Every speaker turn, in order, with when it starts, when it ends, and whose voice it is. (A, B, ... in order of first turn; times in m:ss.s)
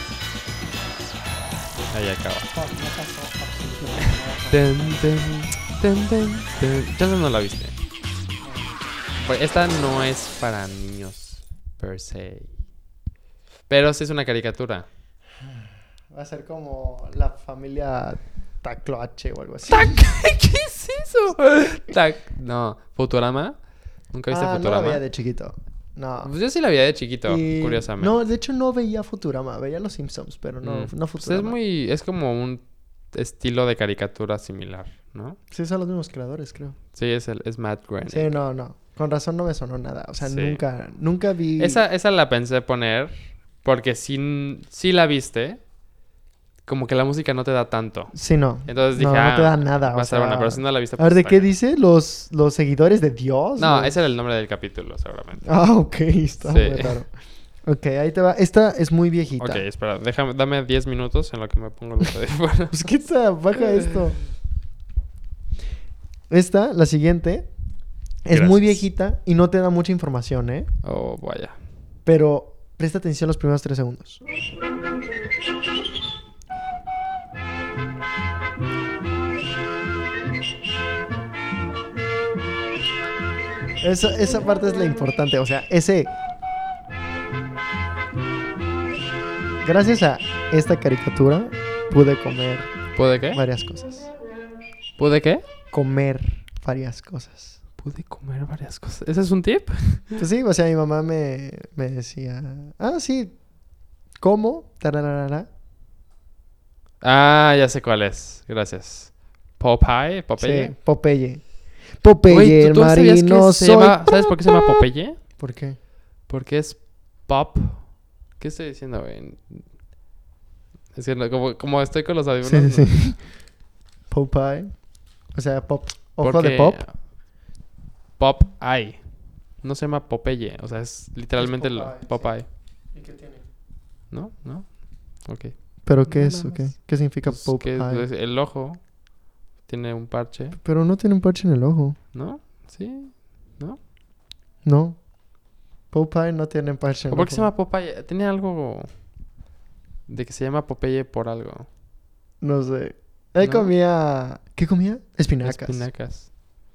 0:01.9-0:02.5 A
0:02.5-0:05.0 B
0:04.5-0:07.7 A
0:08.4-0:08.8 B
0:09.2-0:12.6 A
0:13.7-0:14.9 A
0:15.4-0:20.0 B
0:19.7-0:23.6 A
0:24.1-0:25.0 A
0:24.3-0:26.3 B
0:26.2-0:28.2 A
0:27.2-0:31.6 B
0:30.6-0:35.4 A
0:35.5-0:36.8 B
0:36.9-0:38.3 A
0:38.1-0:41.8 B
0:40.2-0:40.6 A
0:41.6-0:45.6 A
0:46.6-0:48.1 A
0:48.1-0:53.9 B
0:48.6-0:51.5 A
0:53.6-0:55.5 A
0:55.4-0:57.1 B
0:56.4-0:57.0 A
0:57.6-0:59.6 B
0:59.4-1:02.9 A
1:02.7-1:04.2 B
1:06.3-1:07.5 B
1:08.2-1:10.7 B
1:08.3-1:08.8 A
1:10.8-1:11.6 A
1:12.0-1:14.2 B
1:23.8-1:26.1 B
1:29.6-1:34.1 B
1:33.0-1:33.4 A
1:35.0-1:35.4 A
1:35.7-1:37.6 B
1:37.8-1:40.2 A
1:40.2-1:43.4 B
1:44.2-1:45.5 B
1:47.0-1:50.7 A
1:50.4-1:54.8 B
1:52.3-1:55.2 A
1:55.4-1:55.8 B
1:56.3-1:59.6 A
2:00.9-2:03.0 A
2:02.4-2:03.4 B
2:04.1-2:06.8 B
2:06.2-2:07.0 A
2:08.2-2:12.4 A
2:11.4-2:13.4 B
2:14.1-2:18.8 A
2:15.8-2:18.1 B
2:19.6-2:20.6 A
2:20.6-2:22.0 B
2:22.1-2:23.8 A
2:24.6-2:25.0 B
2:25.9-2:27.5 B
2:27.1-2:28.9 A
2:30.1-2:31.7 A
2:32.4-2:35.8 B
2:33.4-2:33.7 A
2:35.4-2:36.3 A